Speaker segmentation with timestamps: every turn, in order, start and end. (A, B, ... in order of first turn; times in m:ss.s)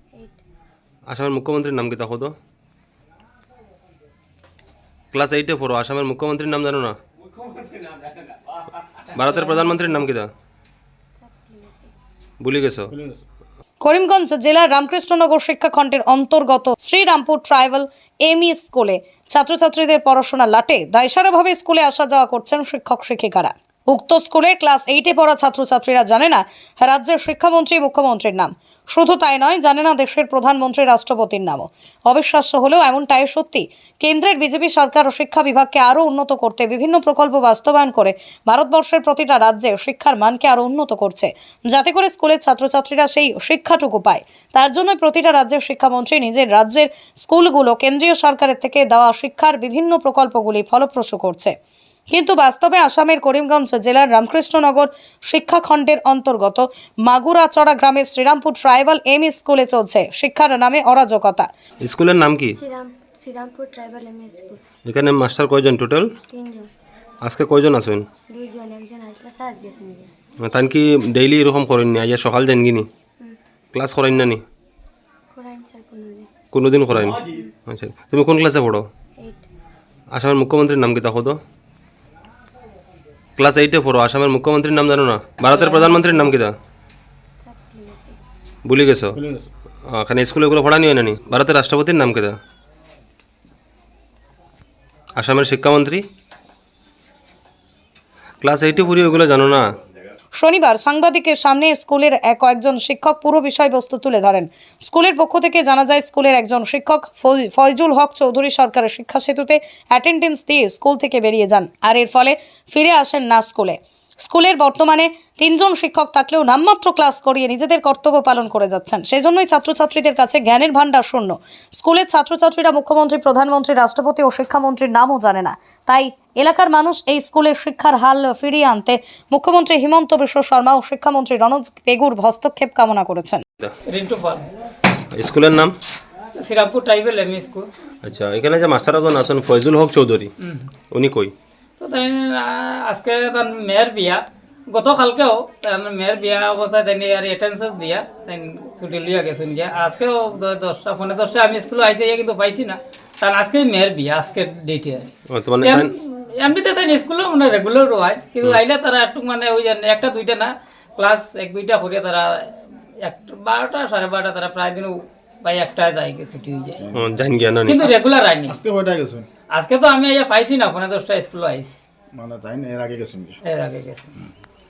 0:01.1-0:02.3 A
0:05.1-0:07.0 A
0:09.1-0:10.3 A
0:11.2-0:11.9 B
0:12.4-0:12.9 A
0:13.8-0:51.6 C
0:52.1-1:01.5 C
1:01.8-1:02.6 A
1:02.6-1:04.6 B
1:04.8-1:06.1 A
1:06.3-1:06.7 B
1:07.2-1:08.0 A
1:08.3-1:10.1 B
1:10.4-1:12.9 A
1:13.7-1:14.4 A
1:15.3-1:16.3 B
1:16.5-1:18.8 A
1:17.2-1:17.5 B
1:19.2-1:19.4 B
1:20.1-1:21.4 A
1:23.4-1:26.5 A
1:27.4-1:28.2 B
1:28.7-1:29.2 A
1:29.2-1:29.5 D
1:29.9-1:32.4 A
1:35.2-1:36.0 A
1:38.4-1:39.7 A
1:40.3-2:13.4 C
2:13.9-2:14.5 E
2:15.1-2:15.8 A
2:16.4-2:17.7 E
2:18.0-2:20.3 A
2:20.4-2:20.7 E
2:20.9-2:21.3 A
2:21.8-2:35.1 E
2:35.3-2:35.9 A
2:35.6-2:46.8 E
2:46.9-2:47.9 A
2:47.7-2:48.6 E
2:48.5-2:49.3 D
2:49.5-2:51.8 E
2:52.1-2:53.4 D
2:53.5-2:54.1 E